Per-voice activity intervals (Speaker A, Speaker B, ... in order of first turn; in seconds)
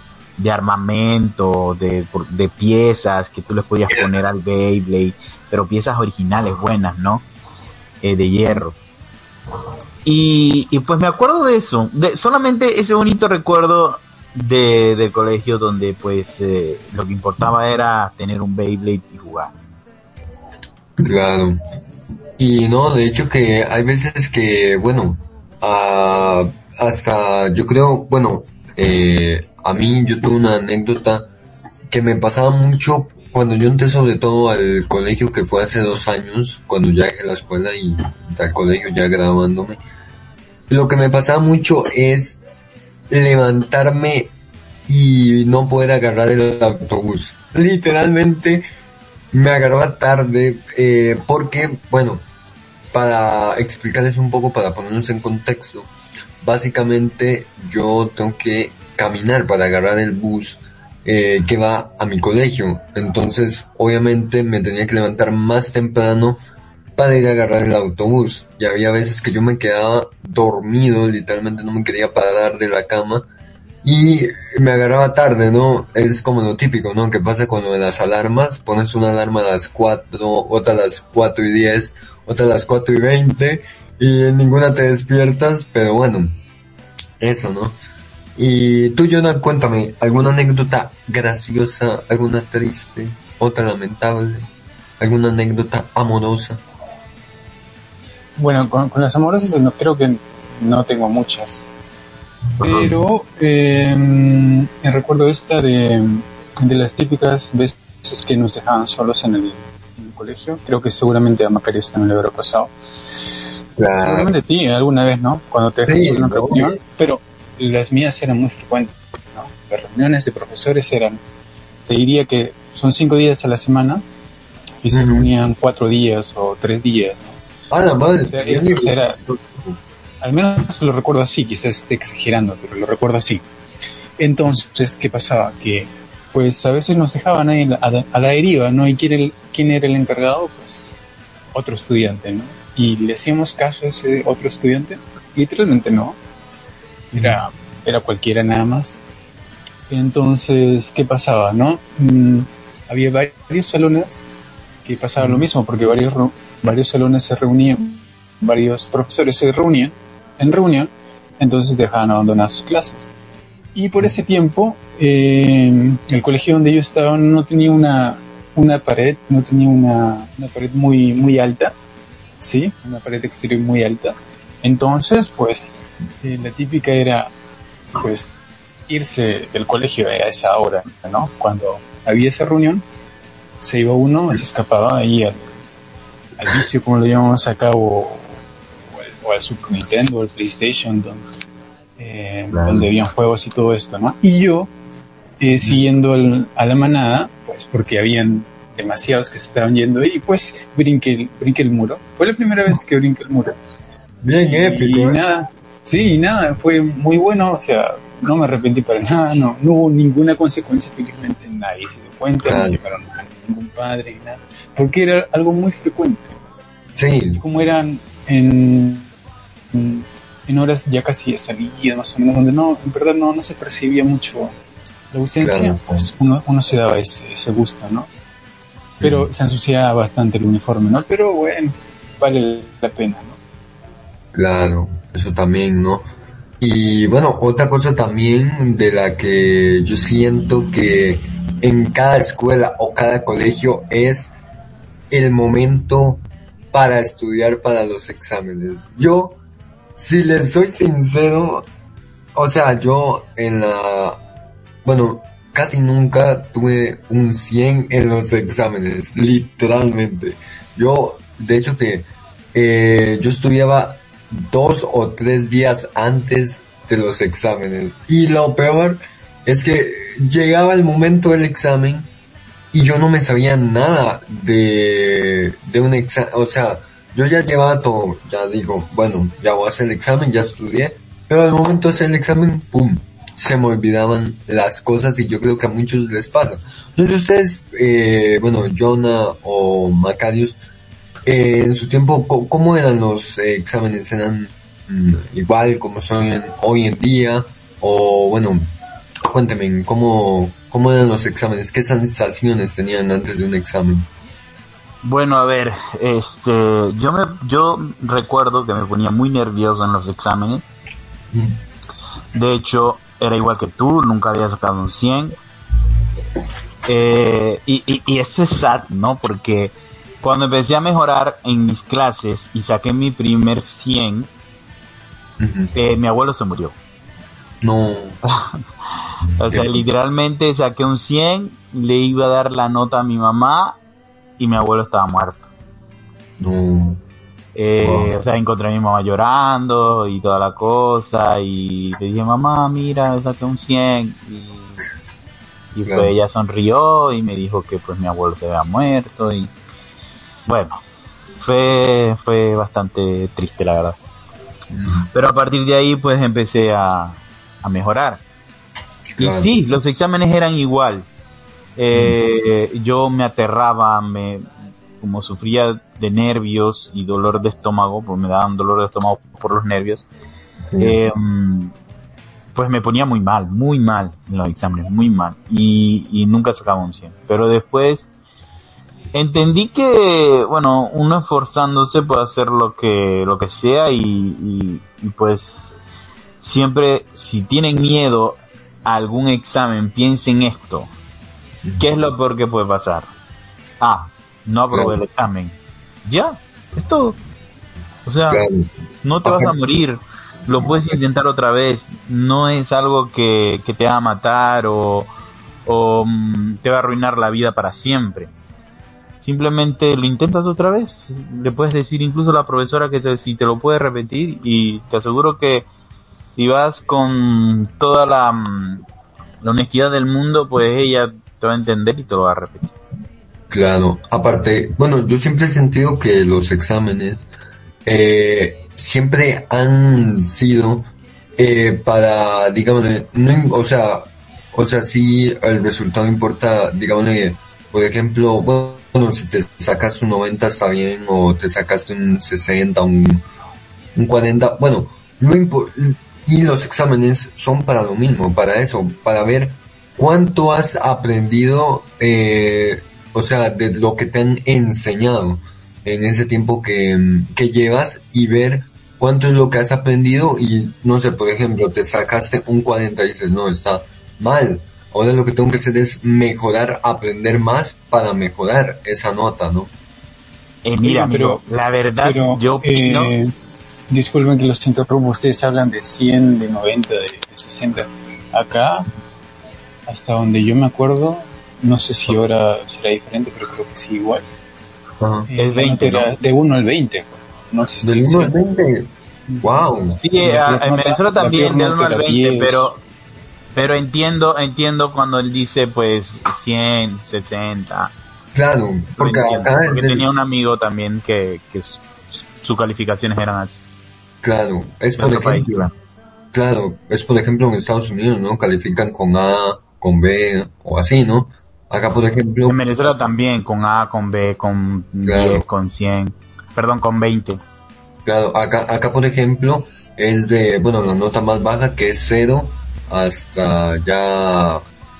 Speaker A: 0.4-7.2, 8.0-8.8, 10.0-19.5, 305.0-310.6, 312.3-315.4, 316.9-324.3, 325.8-326.8, 329.4-333.8, 334.4-335.4, 337.6-344.8, 345.7-349.5, 350.5-350.8, 351.4-354.0, 355.1-358.2, 359.2-361.1, 361.8-364.5, 365.0-370.1, 370.8-371.7, 372.5-378.1, 379.1-385.7, 386.4-390.9, 391.8-393.1, 393.8-397.2, 398.1-398.5, 399.0-405.1, 405.6-408.3, 409.2-415.6, 416.4-418.8, 419.4-422.7, 470.6-473.1, 485.4-486.1, 490.0-492.8, 493.5-497.9, 499.0-501.8, 502.4-503.6, 505.0-505.7, 512.5-517.4
Speaker B: 21.0-21.6, 22.4-31.3, 31.9-39.8, 40.7-42.4, 43.1-44.3, 44.9-48.6, 49.3-52.2, 52.9-55.9, 56.4-66.4, 67.0-73.2, 73.8-86.4, 87.2-87.8, 88.3-94.5, 95.0-96.6, 102.6-103.0, 113.8-114.3, 115.8-116.8, 124.9-125.3, 127.7-129.8, 147.1-147.4, 155.2-155.4, 192.5-192.9, 204.2-205.2, 212.4-212.8, 216.9-217.4, 225.4-226.1, 229.0-229.3, 234.3-236.1, 236.6-244.3, 245.1-246.2, 246.7-249.4, 249.9-251.7, 252.3-254.2, 254.8-272.1, 272.7-290.6, 291.2-298.7, 299.2-304.1, 311.3-311.6, 325.4-325.7, 327.6-328.2, 329.5-329.8, 336.4-337.0, 337.8-338.1, 345.8-346.1, 354.7-355.1, 359.1-359.5, 370.7-371.0, 398.3-398.7, 399.2-399.5, 423.5-427.2, 427.8-443.2, 443.9-469.7, 485.0-485.3, 487.8-488.9, 489.4-490.0, 498.3-500.1, 504.2-505.7, 506.3-512.6, 515.0-515.4, 518.0-524.6
Speaker C: 98.4-101.7, 102.6-112.7, 113.9-121.2, 121.9-124.0, 124.8-127.4, 128.3-129.2, 130.2-133.4, 134.2-140.9, 141.5-146.2, 147.1-149.0, 149.9-154.3, 154.8-163.1, 163.8-171.8, 172.4-177.3, 178.0-182.8, 183.6-185.5, 186.4-188.3, 188.9-191.2, 192.0-194.7, 195.4-203.5, 204.4-216.4, 217.3-219.1, 219.7-224.5, 225.1-228.1, 229.0-233.4, 470.8-471.4, 472.0-473.3, 473.9-478.9, 479.9-484.2, 485.3-488.4, 489.3-489.6, 490.2-492.6